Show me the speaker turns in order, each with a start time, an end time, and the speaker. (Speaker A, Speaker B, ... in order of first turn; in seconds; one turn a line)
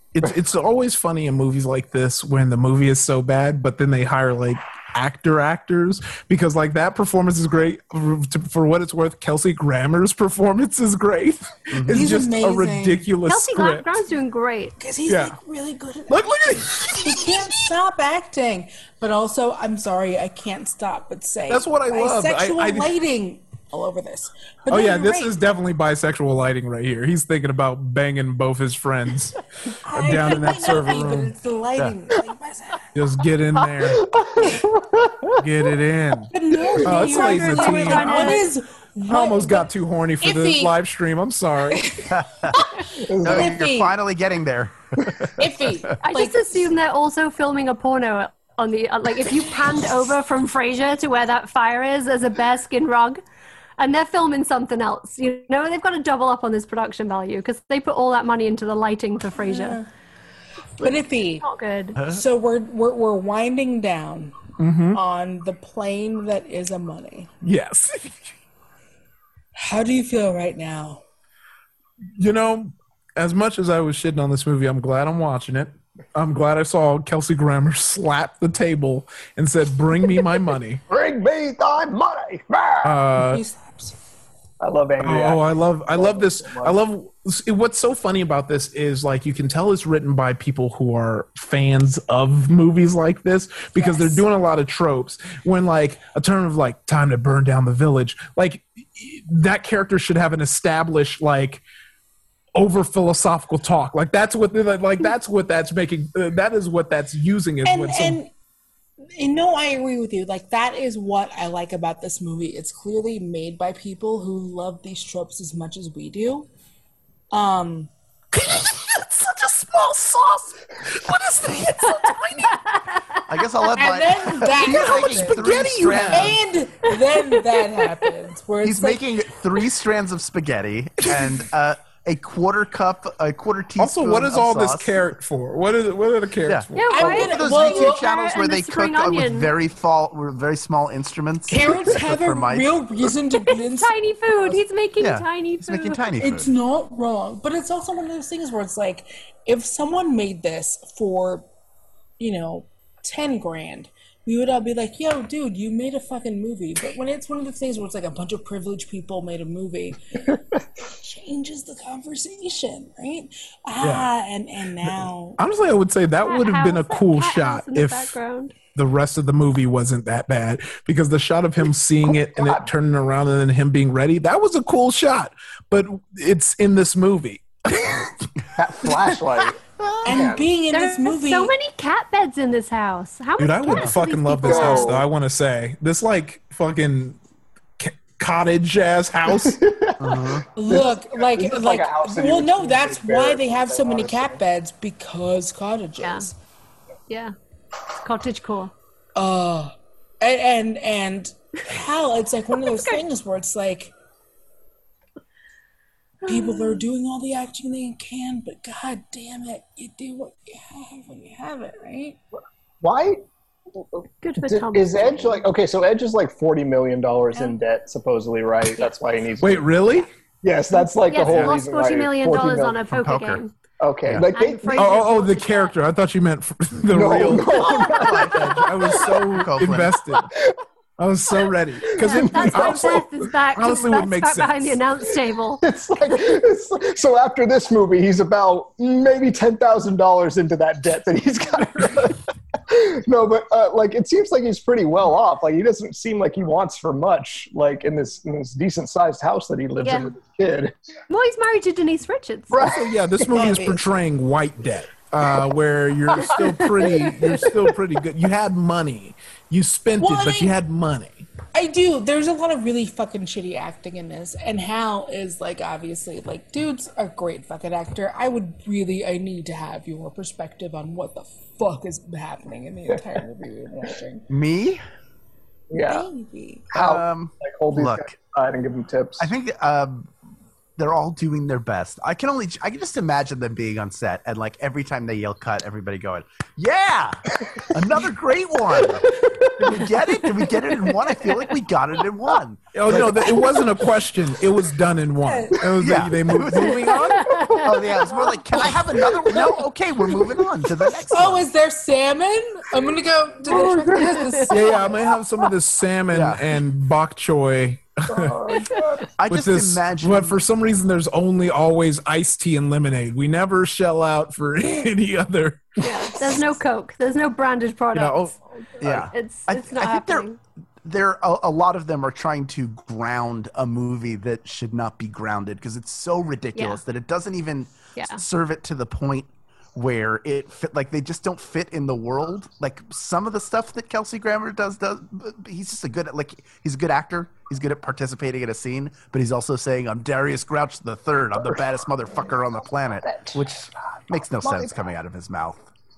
Speaker A: 0.1-14.0
Speaker B: 11.7-12.0
Speaker C: 11.9-13.1
Speaker D: 13.3-14.8
Speaker C: 14.8-16.3
Speaker A: 15.1-15.4
Speaker A: 16.1-17.6
Speaker C: 16.9-25.4
Speaker A: 21.5-22.9
Speaker A: 24.7-29.4
Speaker C: 29.9-32.8
Speaker A: 29.9-31.4
Speaker A: 33.0-34.1
Speaker E: 33.9-35.4
Speaker A: 35.4-36.3
Speaker C: 36.3-39.7
Speaker A: 36.8-38.5
Speaker D: 36.9-38.5
Speaker A: 39.1-42.0
Speaker C: 40.2-40.8
Speaker C: 41.7-44.0
Speaker B: 42.1-42.6
Speaker E: 43.0-43.6
Speaker B: 43.2-45.4
Speaker C: 45.4-46.7
Speaker D: 46.0-53.2
Speaker D: 53.8-59.8
Speaker C: 59.4-59.9
Speaker C: 60.8-61.5
Speaker D: 60.8-62.0
Speaker C: 62.0-64.4
Speaker A: 64.6-65.0
Speaker C: 64.9-67.3
Speaker A: 67.4-68.3
Speaker C: 69.5-71.0
Speaker A: 72.2-80.8
Speaker E: 80.9-83.0
Speaker A: 82.8-83.4
Speaker C: 83.2-84.0
Speaker E: 84.6-86.8
Speaker A: 85.0-101.6
Speaker C: 93.8-94.2
Speaker A: 102.5-108.2
Speaker C: 107.7-108.3
Speaker C: 109.1-116.5
Speaker C: 117.3-117.9
Speaker A: 118.3-122.7
Speaker D: 122.5-123.2
Speaker B: 123.3-126.4
Speaker C: 123.8-129.0
Speaker A: 124.4-126.4
Speaker B: 128.6-134.9
Speaker A: 131.0-131.4
Speaker A: 133.8-137.2
Speaker B: 136.5-142.8
Speaker D: 136.8-139.5
Speaker C: 136.9-138.1
Speaker C: 141.5-144.6
Speaker D: 143.5-146.0
Speaker B: 145.0-146.5
Speaker C: 146.2-151.5
Speaker C: 152.2-160.2
Speaker C: 160.8-165.4
Speaker A: 163.8-164.1
Speaker A: 164.8-168.2
Speaker D: 166.2-168.5
Speaker A: 168.8-178.2
Speaker E: 172.1-172.7
Speaker E: 178.6-180.5
Speaker C: 180.1-181.6
Speaker D: 180.7-185.0
Speaker A: 183.4-187.2
Speaker E: 184.4-185.1
Speaker A: 187.8-189.6
Speaker E: 189.4-194.4
Speaker B: 190.0-190.5
Speaker C: 190.6-196.3
Speaker D: 196.0-196.3
Speaker D: 197.1-197.3
Speaker D: 198.0-198.7
Speaker C: 199.2-203.9
Speaker D: 206.2-206.8
Speaker C: 206.2-212.2
Speaker E: 212.8-213.2
Speaker E: 213.8-222.8
Speaker D: 214.2-215.5
Speaker A: 219.4-220.1
Speaker D: 220.7-223.5
Speaker B: 221.2-221.6
Speaker B: 222.9-223.4
Speaker E: 223.8-225.0
Speaker D: 224.3-225.7
Speaker A: 224.7-230.3
Speaker E: 226.9-228.4
Speaker B: 227.6-230.1
Speaker D: 227.7-227.9
Speaker A: 231.0-234.8
Speaker E: 231.9-233.1
Speaker D: 232.0-235.6
Speaker E: 235.6-250.8
Speaker D: 249.8-250.1
Speaker D: 251.1-252.6
Speaker A: 252.5-261.3
Speaker E: 252.5-252.9
Speaker C: 253.3-253.8
Speaker C: 260.0-260.6
Speaker C: 261.5-274.3
Speaker B: 274.3-274.8
Speaker E: 275.7-276.1
Speaker C: 275.8-276.7
Speaker E: 276.7-279.3
Speaker B: 276.7-278.2
Speaker B: 279.2-280.1
Speaker B: 280.8-293.6
Speaker A: 292.7-297.5
Speaker C: 295.2-295.6
Speaker B: 295.8-297.0
Speaker D: 297.2-298.3
Speaker B: 297.6-301.5
Speaker C: 301.1-305.0
Speaker E: 303.5-304.2
Speaker D: 304.1-304.5
Speaker A: 304.5-308.6
Speaker B: 306.1-306.4
Speaker E: 308.1-309.1
Speaker B: 309.2-310.4
Speaker A: 309.3-315.9
Speaker D: 315.8-320.4
Speaker A: 317.9-318.3
Speaker B: 318.8-320.3
Speaker B: 320.8-345.6
Speaker D: 326.6-326.8
Speaker D: 328.0-328.2
Speaker E: 343.0-344.9